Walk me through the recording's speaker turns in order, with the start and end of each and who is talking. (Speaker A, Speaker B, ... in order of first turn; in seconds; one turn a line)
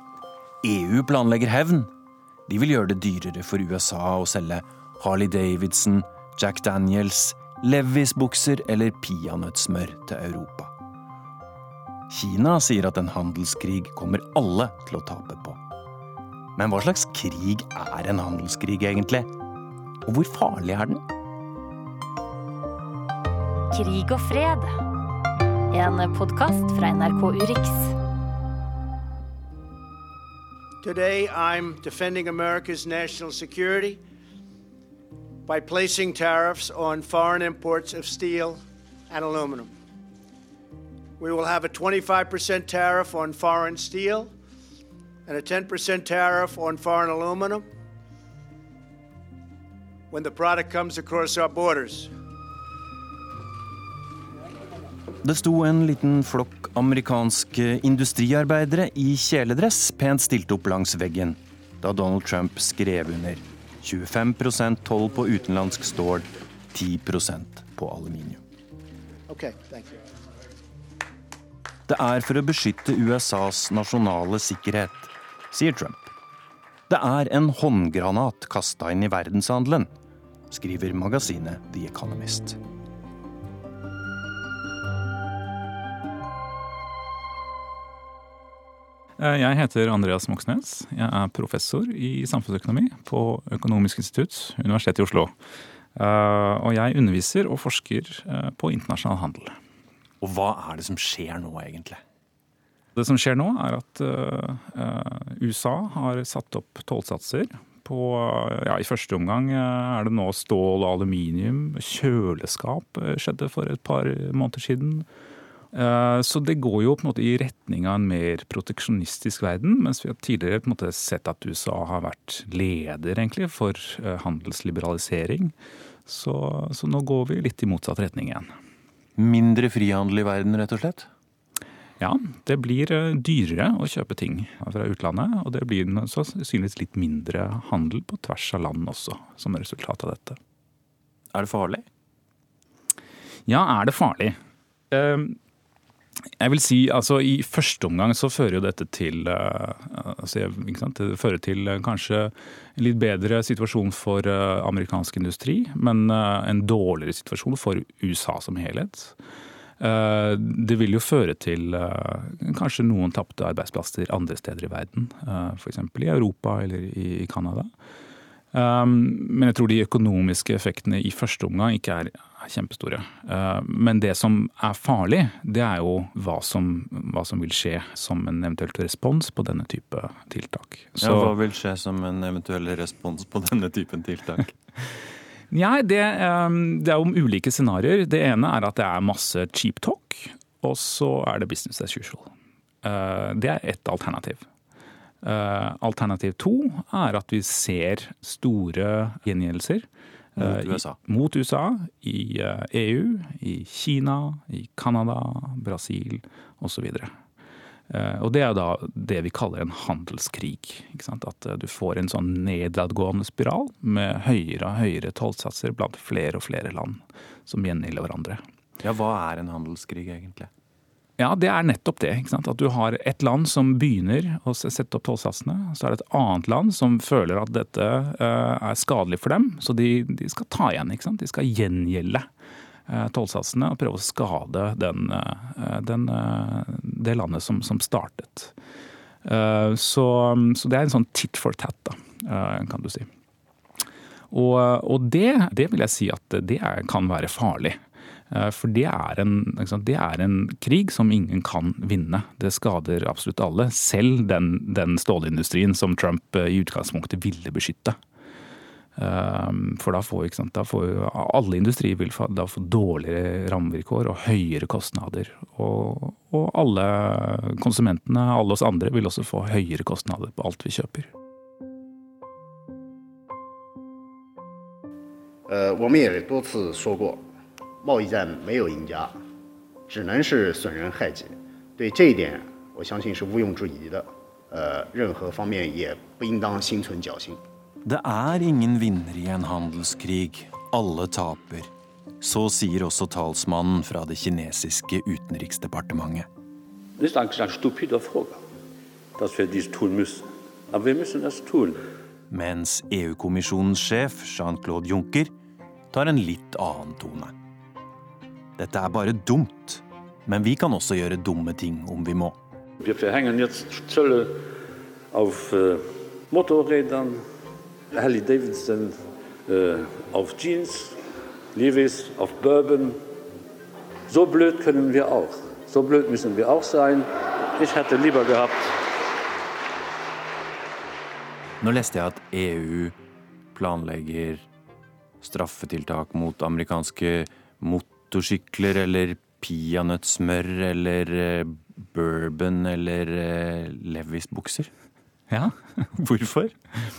Speaker A: 0.6-1.9
Speaker A: 2.5-10.7
Speaker A: 12.1-15.6
Speaker A: 16.6-19.3
Speaker A: 20.1-21.0
Speaker B: 23.7-24.8
Speaker B: 25.7-27.9
Speaker C: 30.8-34.0
Speaker C: 35.5-39.7
Speaker C: 41.2-44.3
Speaker C: 45.2-47.6
Speaker C: 50.1-52.1
Speaker A: 55.2-68.4
Speaker C: 69.3-70.0
Speaker A: 71.9-76.1
Speaker A: 76.9-79.9
Speaker A: 80.5-82.6
Speaker D: 89.2-95.3
Speaker D: 96.0-99.5
Speaker A: 100.2-102.0
Speaker D: 103.0-115.1
Speaker D: 115.7-125.5
Speaker D: 126.0-128.5
Speaker A: 129.2-131.1
Speaker D: 132.0-140.4
Speaker A: 141.3-141.8
Speaker D: 143.5-144.4
Speaker D: 144.9-145.4
Speaker D: 146.4-159.2
Speaker D: 159.8-167.7
Speaker D: 168.5-181.4
Speaker A: 181.0-184.5
Speaker D: 185.5-192.3
Speaker D: 192.8-194.4
Speaker D: 195.2-207.1
Speaker A: 200.4-201.0
Speaker D: 207.9-218.4
Speaker A: 218.8-220.5
Speaker D: 221.2-232.3
Speaker D: 232.9-238.5
Speaker D: 239.2-243.1
Speaker D: 244.3-258.0
Speaker D: 259.0-271.1
Speaker E: 275.5-277.2
Speaker E: 277.8-279.2
Speaker E: 279.9-287.4
Speaker A: 287.8-296.3
Speaker F: 297.0-298.4
Speaker F: 299.2-301.8
Speaker A: 302.3-305.3
Speaker A: 305.9-307.3
Speaker A: 308.6-312.4
Speaker F: 312.8-314.4
Speaker F: 315.1-317.2
Speaker F: 317.9-321.0
Speaker F: 321.5-323.0
Speaker F: 324.1-328.7
Speaker A: 331.6-332.9
Speaker A: 333.5-334.4
Speaker A: 335.2-344.7
Speaker D: 345.3-345.8
Speaker A: 345.9-346.5